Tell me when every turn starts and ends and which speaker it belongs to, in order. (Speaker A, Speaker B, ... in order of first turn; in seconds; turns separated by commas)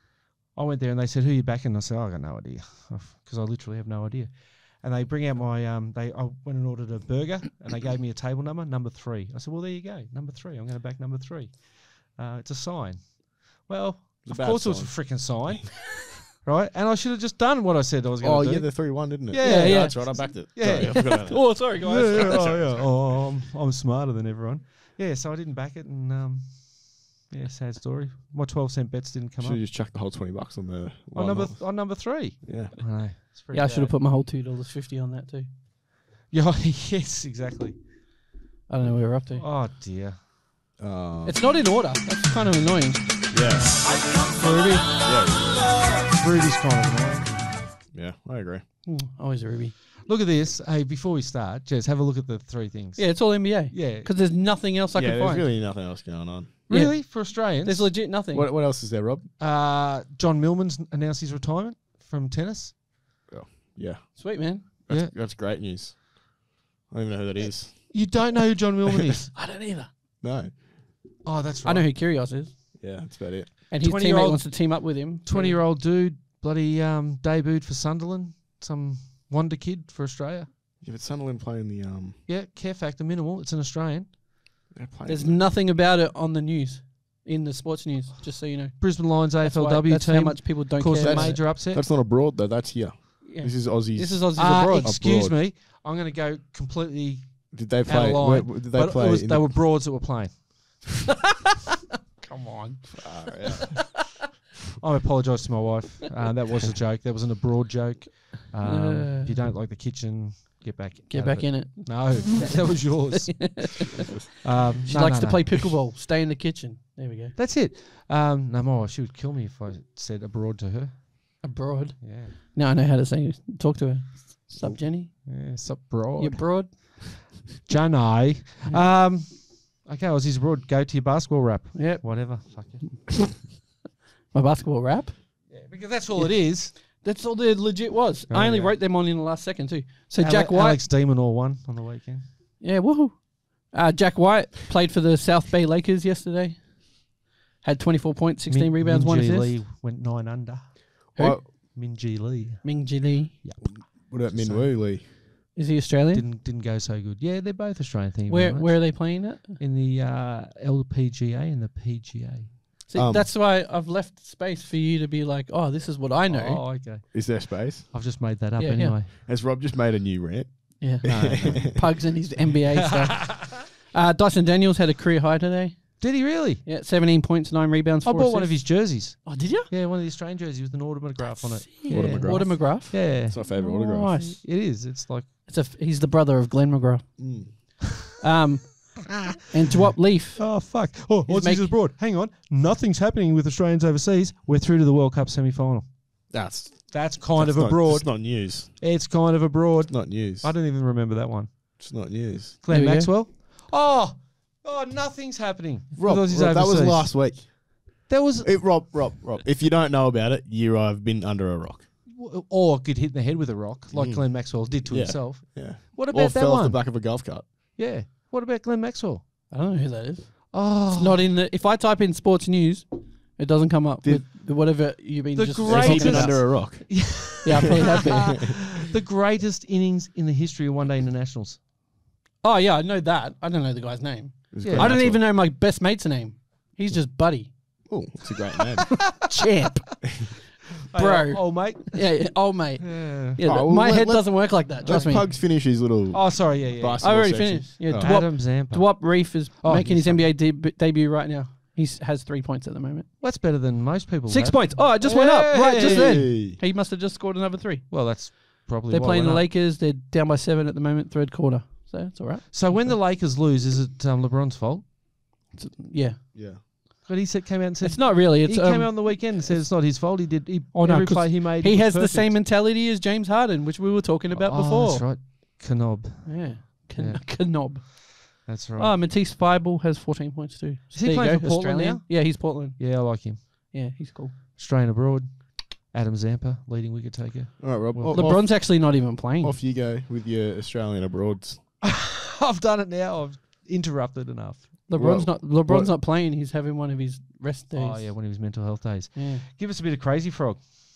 Speaker A: 0.5-29.6, Speaker B: 14.2-15.7, Speaker B: 18.2-22.9, Speaker C: 19.4-22.7, Speaker B: 29.4-32.7, Speaker A: 31.1-34.0, Speaker C: 33.5-35.5, Speaker A: 36.3-37.8, Speaker C: 38.7-39.5, Speaker A: 39.4-40.2, Speaker B: 40.8-41.4, Speaker C: 41.2-43.0, Speaker B: 43.3-43.9, Speaker C: 44.4-44.8, Speaker A: 44.5-44.9, Speaker B: 45.0-45.6, Speaker A: 46.1-47.3, Speaker B: 47.9-48.6, Speaker C: 48.9-49.7, Speaker A: 50.1-54.1, Speaker C: 53.0-55.5, Speaker B: 55.0-56.6, Speaker A: 56.7-58.0, Speaker C: 56.7-58.5, Speaker B: 58.3-59.3, Speaker A: 59.4-62.8, Speaker B: 63.3-68.3, Speaker C: 64.2-64.7, Speaker A: 67.9-69.3, Speaker C: 69.3-69.9, Speaker B: 70.2-70.6, Speaker A: 71.2-71.9, Speaker C: 71.7-72.6, Speaker B: 72.8-73.5, Speaker C: 73.7-75.6, Speaker A: 73.8-80.5, Speaker B: 80.8-82.2, Speaker A: 82.3-84.2, Speaker B: 84.7-85.5, Speaker C: 85.1-91.4, Speaker A: 88.8-91.8, Speaker B: 91.0-95.4, Speaker C: 93.2-95.0, Speaker A: 94.4-100.9, Speaker B: 97.5-99.5, Speaker C: 102.2-103.8, Speaker B: 103.0-103.7, Speaker A: 104.8-115.7, Speaker C: 108.6-109.3, Speaker C: 111.1-114.1, Speaker C: 114.8-117.3, Speaker A: 117.4-121.1, Speaker C: 121.4-125.6, Speaker A: 122.0-122.3, Speaker A: 125.2-133.0, Speaker C: 126.2-126.7, Speaker C: 128.6-128.9, Speaker C: 131.7-132.7, Speaker C: 134.3-135.2, Speaker A: 135.5-136.8, Speaker C: 136.2-140.8, Speaker A: 138.3-138.8, Speaker A: 140.2-142.2, Speaker C: 142.6-146.8, Speaker C: 147.6-149.6, Speaker A: 148.5-152.8, Speaker B: 151.2-151.4, Speaker C: 152.6-153.4, Speaker A: 153.3-155.1, Speaker B: 153.8-155.1, Speaker C: 155.6-156.2, Speaker A: 156.1-162.6, Speaker C: 158.3-159.6, Speaker C: 162.9-166.7, Speaker B: 162.9-163.3, Speaker A: 166.3-169.2, Speaker B: 167.1-167.9, Speaker C: 168.6-169.0, Speaker B: 169.2-171.9, Speaker C: 170.8-176.1, Speaker A: 171.0-171.9, Speaker A: 172.8-173.5, Speaker A: 176.0-176.6, Speaker C: 176.6-179.7, Speaker A: 178.1-183.6, Speaker C: 181.2-184.6, Speaker B: 181.9-184.2, Speaker A: 184.1-185.3, Speaker C: 185.5-190.7, Speaker B: 187.2-187.5, Speaker A: 190.4-195.9, Speaker C: 191.2-191.8, Speaker B: 196.3-198.8, Speaker A: 196.9-201.8, Speaker B: 199.9-200.5, Speaker B: 201.8-202.6, Speaker A: 202.6-207.5, Speaker C: 202.7-203.1, Speaker B: 206.0-211.9, Speaker A: 208.1-209.2, Speaker A: 212.1-219.3, Speaker B: 213.9-217.5, Speaker C: 219.5-226.6, Speaker A: 220.5-221.3, Speaker A: 225.3-231.6, Speaker B: 225.7-227.2, Speaker C: 227.4-228.3, Speaker B: 228.1-228.5, Speaker C: 232.4-237.9, Speaker B: 234.5-235.2, Speaker A: 234.6-235.2, Speaker B: 237.9-239.2, Speaker C: 239.1-240.3, Speaker A: 240.9-243.4, Speaker C: 240.9-245.3, Speaker B: 243.4-248.3, Speaker A: 244.8-247.3, Speaker C: 247.0-253.1, Speaker A: 247.9-250.2, Speaker B: 249.8-250.1, Speaker A: 253.2-256.3, Speaker C: 254.3-262.9, Speaker B: 255.8-256.6, Speaker A: 257.9-259.5, Speaker A: 262.5-264.9, Speaker C: 265.5-266.2, Speaker B: 266.4-266.6, Speaker A: 267.1-272.4, Speaker C: 267.8-269.7, Speaker C: 270.8-275.1, Speaker A: 274.3-277.9, Speaker C: 276.2-283.2, Speaker A: 278.4-279.0, Speaker A: 280.9-283.7, Speaker C: 283.7-284.4, Speaker A: 284.6-288.3, Speaker B: 287.6-291.6, Speaker C: 288.1-289.6, Speaker A: 291.8-294.8, Speaker C: 294.9-298.2, Speaker B: 294.9-295.9, Speaker A: 297.7-300.6, Speaker C: 299.1-299.4